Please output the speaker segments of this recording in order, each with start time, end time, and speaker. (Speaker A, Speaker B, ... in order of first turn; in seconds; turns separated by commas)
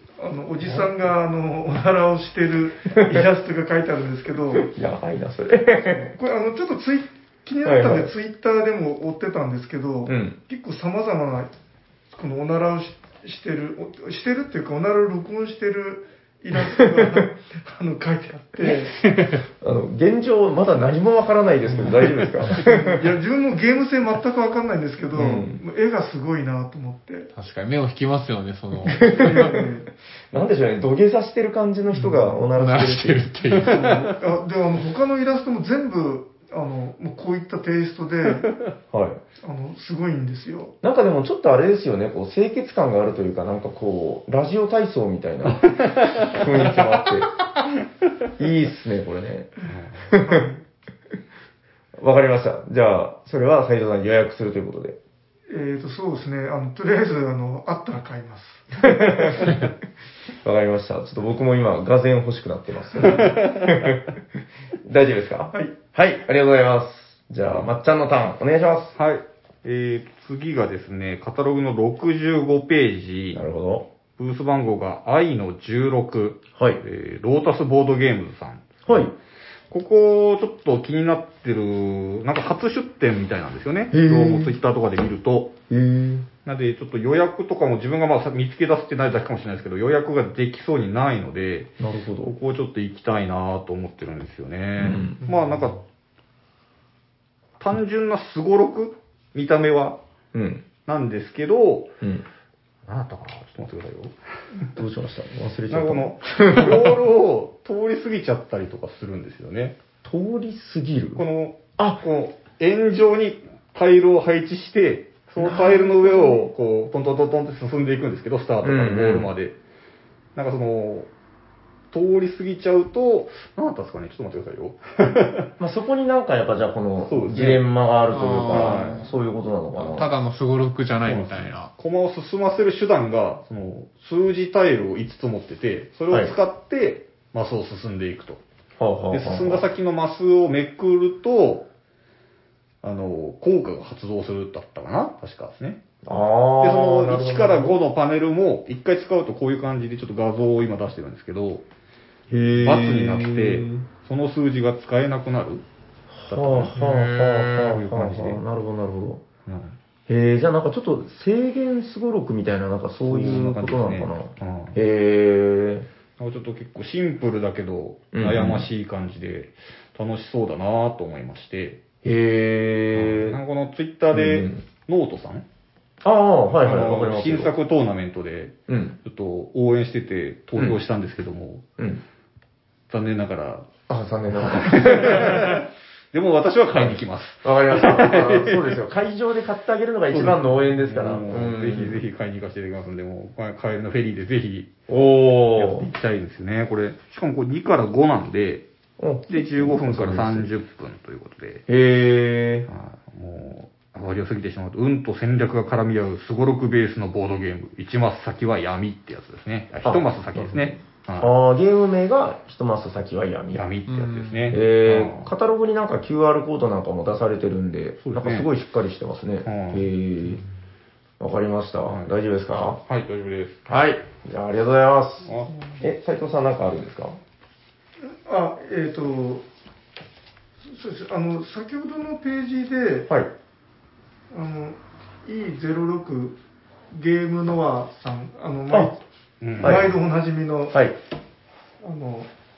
Speaker A: 0.2-4.7, Speaker B: 2.9-3.2, Speaker B: 4.5-6.1, Speaker A: 5.9-11.5, Speaker B: 7.6-8.1, Speaker B: 10.1-10.4, Speaker A: 12.1-18.9, Speaker B: 16.8-17.2, Speaker C: 18.6-19.4, Speaker B: 19.6-23.1, Speaker A: 22.6-27.3, Speaker B: 25.1-25.6, Speaker C: 27.3-29.6, Speaker B: 28.8-29.7, Speaker A: 29.1-29.9, Speaker B: 30.3-33.3, Speaker A: 32.1-32.4, Speaker C: 32.5-34.1, Speaker A: 33.6-38.5, Speaker B: 38.9-39.2, Speaker A: 39.4-40.7, Speaker B: 40.8-47.3, Speaker D: 45.6-46.4, Speaker B: 48.4-50.4, Speaker D: 49.6-50.1, Speaker A: 50.2-50.6, Speaker B: 52.0-55.0, Speaker A: 55.5-59.0, Speaker B: 58.8-59.7, Speaker B: 60.4-64.0, Speaker D: 63.0-63.9, Speaker B: 64.8-68.9, Speaker D: 69.0-73.4, Speaker B: 73.3-73.9, Speaker D: 74.2-79.0, Speaker B: 76.5-76.8, Speaker B: 78.8-79.1, Speaker D: 79.7-85.5, Speaker B: 83.9-84.6, Speaker B: 85.7-86.3, Speaker D: 86.4-95.8, Speaker B: 91.8-92.3, Speaker B: 94.8-95.2, Speaker D: 97.6-100.0, Speaker B: 100.3-100.6, Speaker D: 100.8-101.9, Speaker D: 102.8-104.7, Speaker B: 104.7-106.9, Speaker D: 105.7-109.8, Speaker B: 110.0-111.2, Speaker D: 111.2-119.6, Speaker B: 115.4-116.4, Speaker B: 118.6-119.3, Speaker D: 120.3-121.1, Speaker D: 121.9-125.5, Speaker B: 125.6-130.1, Speaker D: 127.0-127.6, Speaker C: 128.1-129.1, Speaker D: 128.5-129.1, Speaker C: 129.8-131.7, Speaker D: 131.0-138.4, Speaker B: 138.8-139.6, Speaker D: 139.1-141.7, Speaker D: 142.8-145.8, Speaker B: 146.0-147.8, Speaker D: 146.6-151.7, Speaker B: 152.3-153.8, Speaker D: 152.5-155.6, Speaker B: 156.1-159.2, Speaker D: 156.3-158.4, Speaker D: 159.4-159.8, Speaker B: 160.1-165.9, Speaker D: 163.1-164.8, Speaker D: 166.2-171.8, Speaker B: 168.1-168.7, Speaker B: 172.0-173.4, Speaker D: 172.9-175.4, Speaker B: 174.1-174.6, Speaker B: 176.0-177.5, Speaker D: 176.6-181.7, Speaker B: 178.7-179.0, Speaker B: 180.6-180.8, Speaker D: 182.9-183.7, Speaker B: 183.9-185.6, Speaker D: 184.4-188.7, Speaker B: 186.7-192.0, Speaker D: 190.1-194.7, Speaker B: 194.9-195.9, Speaker D: 195.6-198.7, Speaker B: 199.0-200.5, Speaker D: 199.3-201.7, Speaker B: 201.7-202.7, Speaker D: 202.7-211.3, Speaker B: 209.8-213.6, Speaker D: 213.5-215.3, Speaker C: 213.9-214.6, Speaker B: 214.5-220.4, Speaker D: 218.0-218.5, Speaker D: 219.4-219.9, Speaker B: 221.2-222.8, Speaker D: 221.9-222.1, Speaker D: 222.8-223.6, Speaker B: 223.7-227.2, Speaker D: 225.2-225.5, Speaker A: 225.5-225.8, Speaker A: 228.0-229.4, Speaker A: 230.6-233.1, Speaker A: 234.3-236.4, Speaker A: 236.9-239.0, Speaker D: 239.4-239.9, Speaker A: 239.6-240.8, Speaker B: 239.6-239.9, Speaker A: 241.8-242.3